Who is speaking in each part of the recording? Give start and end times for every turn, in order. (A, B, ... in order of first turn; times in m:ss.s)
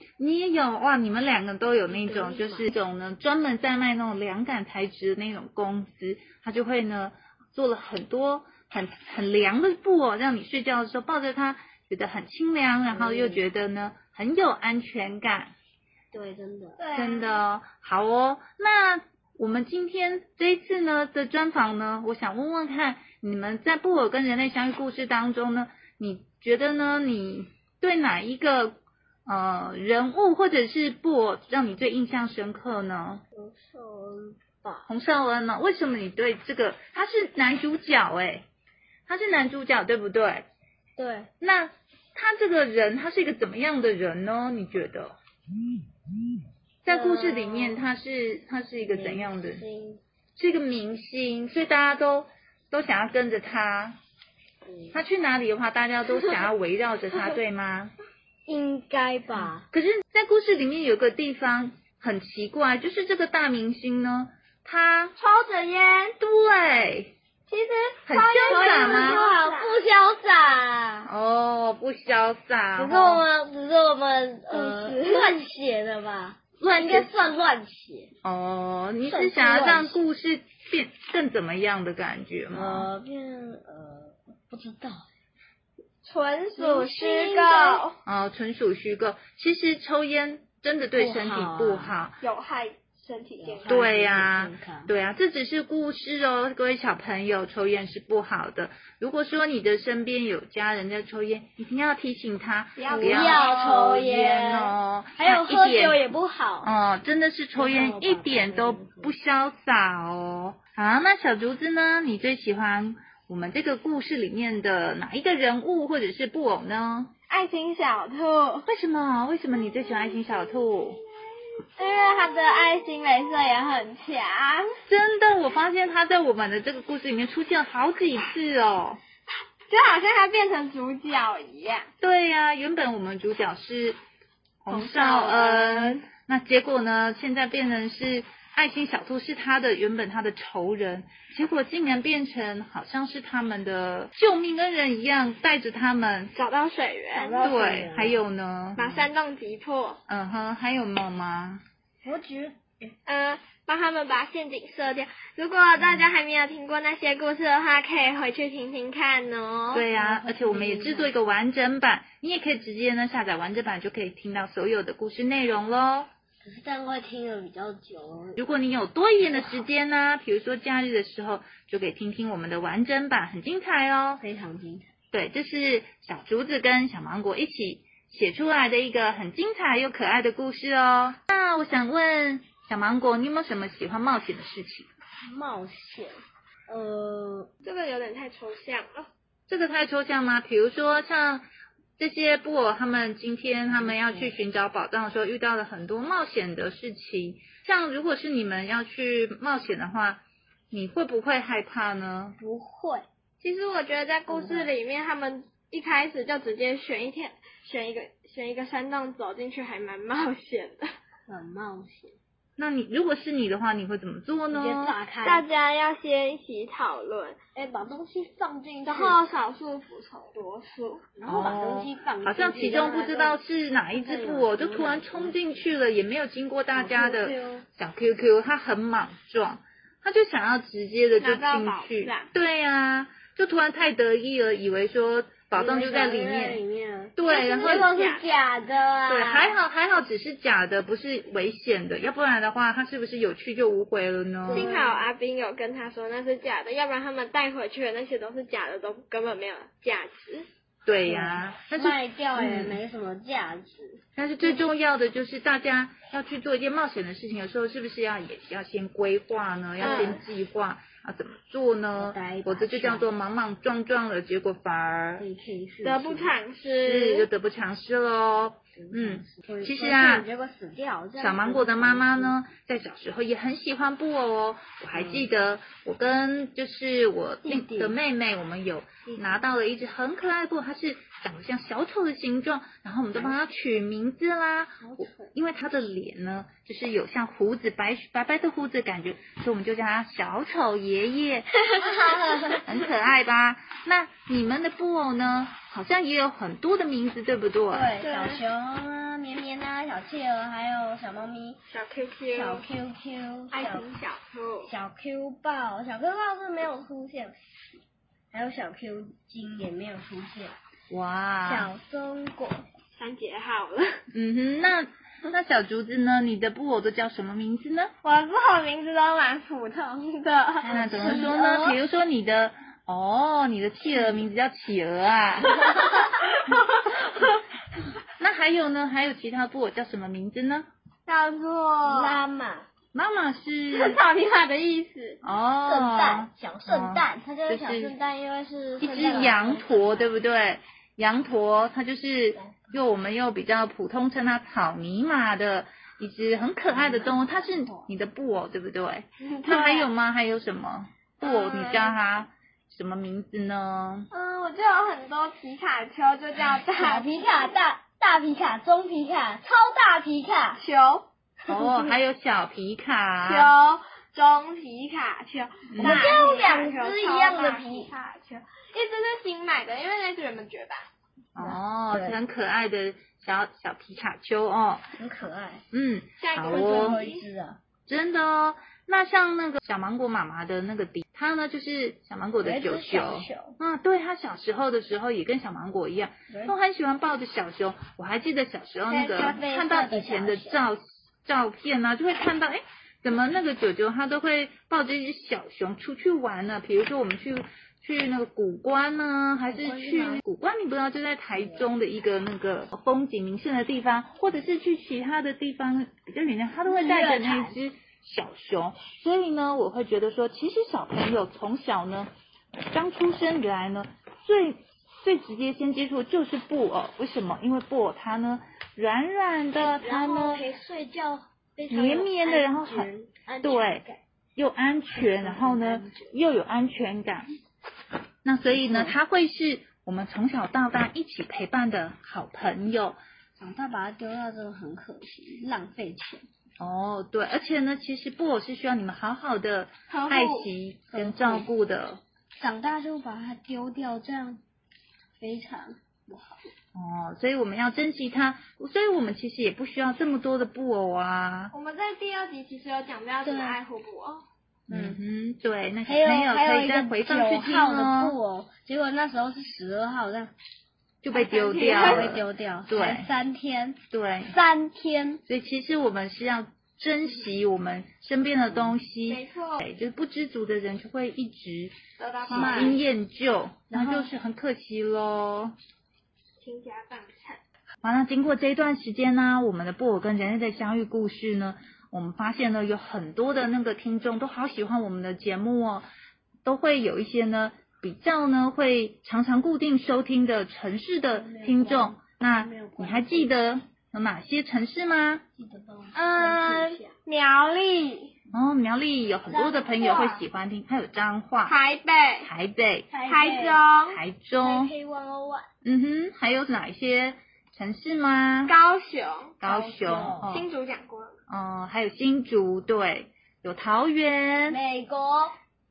0:00.2-0:15.5 A
0:01.9-0:02.7 B
0:12.9-0:13.5 B
0:16.1-0:16.9 B
0:16.8-0:17.4 C
0:16.9-0:33.2 A
0:33.3-0:34.9 B
0:34.9-0:38.4 A
0:39.1-0:40.5 A
0:41.0-0:41.3 B
0:41.4-0:45.2 A
0:46.8-0:49.6 A
0:46.9-0:47.9 B
0:48.9-0:50.0 B
0:50.4-0:54.0 A
0:54.7-0:55.0 B
0:54.9-0:57.9 A
0:58.5-0:59.6 B
0:59.4-1:05.2 A
1:05.2-1:06.2 C
1:06.2-1:07.1 A
1:07.5-1:09.8 C
1:08.1-1:09.2 A
1:08.3-1:11.1 B
1:11.0-1:13.2 A
1:12.8-1:18.1 B
1:14.5-1:15.4 C
1:16.6-1:17.2 A
1:18.2-1:22.9 A
1:19.0-1:20.0 B
1:22.5-1:25.1 B
1:26.0-1:28.0 C
1:26.6-1:27.9 B
1:28.0-1:32.2 A
1:30.9-1:32.0 B
1:32.2-1:33.8 C
1:33.4-1:34.9 B
1:33.7-1:46.0 A
1:42.8-1:43.9 C
1:42.9-1:46.7 B
1:46.6-1:57.1 A
1:47.5-1:49.1 B
1:57.3-1:58.7 C
1:58.7-2:01.0 A
1:59.7-2:00.8 C
2:01.8-2:04.7 C
2:04.9-2:09.0 A
2:09.7-2:11.9 C
2:12.0-2:14.0 A
2:14.6-2:26.3 A
2:14.7-2:16.1 C
2:26.3-2:27.6 C
2:27.1-2:28.2 B
2:27.4-2:28.9 A
2:28.8-2:30.0 C
2:28.8-2:29.1 B
2:30.1-2:31.6 A
2:32.0-2:32.8 B
2:33.1-2:39.9 C
2:39.7-2:46.1 A
2:39.9-2:41.1 B
2:46.4-2:48.4 B
2:48.4-2:54.2 A
2:54.2-2:54.9 B
2:55.1-3:04.9 A
3:05.3-3:06.2 B
3:06.7-3:07.5 B
3:07.6-3:09.1 C
3:09.5-3:11.5 A
3:12.0-3:22.4 A
3:13.7-3:14.4 B
3:22.4-3:23.1 B
3:23.4-3:30.9 C
3:24.3-3:24.7 B
3:31.3-3:32.2 B
3:32.6-3:35.0 A
3:34.5-3:35.4 B
3:35.2-3:37.4 C
3:37.6-3:39.2 B
3:38.8-3:41.1 C
3:41.2-3:45.7 B
3:41.2-3:56.6 A
3:46.7-3:47.6 B
3:51.2-3:52.3 C
3:55.5-3:59.6 B
3:57.2-3:57.9 A
3:57.2-3:58.2 C
3:59.1-4:04.7 A
4:04.4-4:05.1 B
4:04.5-4:10.5 C
4:10.8-4:12.8 A
4:11.0-4:14.0 B
4:14.2-4:25.3 A
4:19.8-4:20.2 C
4:19.8-4:20.2 B
4:22.0-4:23.1 B
4:25.2-4:26.4 B
4:25.8-4:27.3 C
4:26.8-4:30.3 A
4:28.8-4:32.4 B
4:31.2-4:51.5 A
4:34.9-4:35.3 B
4:37.4-4:38.0 B
4:39.1-4:39.4 B
4:44.8-4:45.3 B
4:51.8-4:52.6 B
4:52.6-4:57.9 A
4:57.7-5:01.6 B
4:58.0-4:58.4 C
5:01.7-5:02.6 C
5:02.3-5:03.9 B
5:03.5-5:04.7 C
5:04.6-5:07.3 B
5:08.3-5:10.5 B
5:10.9-5:11.7 A
5:11.4-5:12.6 B
5:13.0-5:14.0 C
5:14.1-5:17.9 A
5:18.0-5:21.6 C
5:20.6-5:25.7 A
5:20.7-5:21.8 B
5:25.6-5:27.3 C
5:28.2-5:30.7 A
5:31.1-5:32.2 C
5:31.8-5:32.7 B
5:32.9-5:34.0 A
5:33.7-5:35.2 C
5:35.2-5:38.0 A
5:35.6-5:40.1 B
5:38.8-5:54.1 A
5:42.4-5:42.8 B
5:46.7-5:47.9 B
5:49.3-5:49.9 C
5:51.2-5:52.0 C
5:54.1-5:57.1 C
5:56.8-6:00.6 B
6:00.6-6:01.9 C
6:01.5-6:03.5 A
6:03.2-6:10.9 C
6:05.7-6:06.0 A
6:05.8-6:07.9 B
6:11.4-6:14.8 A
6:11.4-6:12.2 B
6:15.0-6:15.6 B
6:15.7-6:17.0 A
6:16.2-6:17.2 C
6:16.4-6:17.6 B
6:17.9-6:52.1 A
6:22.4-6:23.6 B
6:26.3-6:26.6 B
6:28.9-6:30.6 B
6:39.5-6:40.2 B
6:41.3-6:41.7 B
6:46.6-6:47.6 B
6:52.6-7:00.5 A
6:59.6-7:04.0 B
7:01.7-7:03.8 A
7:04.4-7:07.3 A
7:05.0-7:06.1 B
7:08.2-7:13.0 A
7:08.5-7:09.0 B
7:13.4-7:16.2 B
7:16.6-7:22.0 A
7:19.9-7:20.5 C
7:20.9-7:21.5 B
7:22.4-7:24.4 B
7:25.2-7:26.5 B
7:26.7-7:31.5 A
7:31.5-7:34.2 C
7:33.2-7:33.6 B
7:34.7-7:35.0 B
7:34.7-7:38.2 A
7:35.8-7:40.3 B
7:41.0-7:43.1 A
7:41.1-7:42.1 C
7:41.6-7:45.2 B
7:43.9-7:44.4 A
7:45.3-7:51.8 A
7:49.1-7:49.6 C
7:52.0-7:52.8 C
7:52.3-7:55.5 A
7:52.3-7:52.8 B
7:53.7-7:54.1 B
7:56.4-7:57.4 C
7:57.8-8:05.9 A
8:06.4-8:15.2 A
8:11.1-8:13.4 B
8:15.4-8:16.9 B
8:15.9-8:18.1 C
8:18.3-8:21.6 A
8:19.3-8:20.0 B
8:19.7-8:20.2 C
8:21.4-8:22.3 C
8:22.2-8:22.9 A
8:22.9-8:23.7 B
8:23.0-8:24.0 C
8:23.9-8:24.7 A
8:24.4-8:25.5 B
8:25.6-8:28.6 A
8:28.5-8:29.4 C
8:29.4-8:30.5 A
8:29.4-8:30.4 B
8:30.2-8:31.2 C
8:31.3-8:34.6 A
8:34.5-8:35.4 B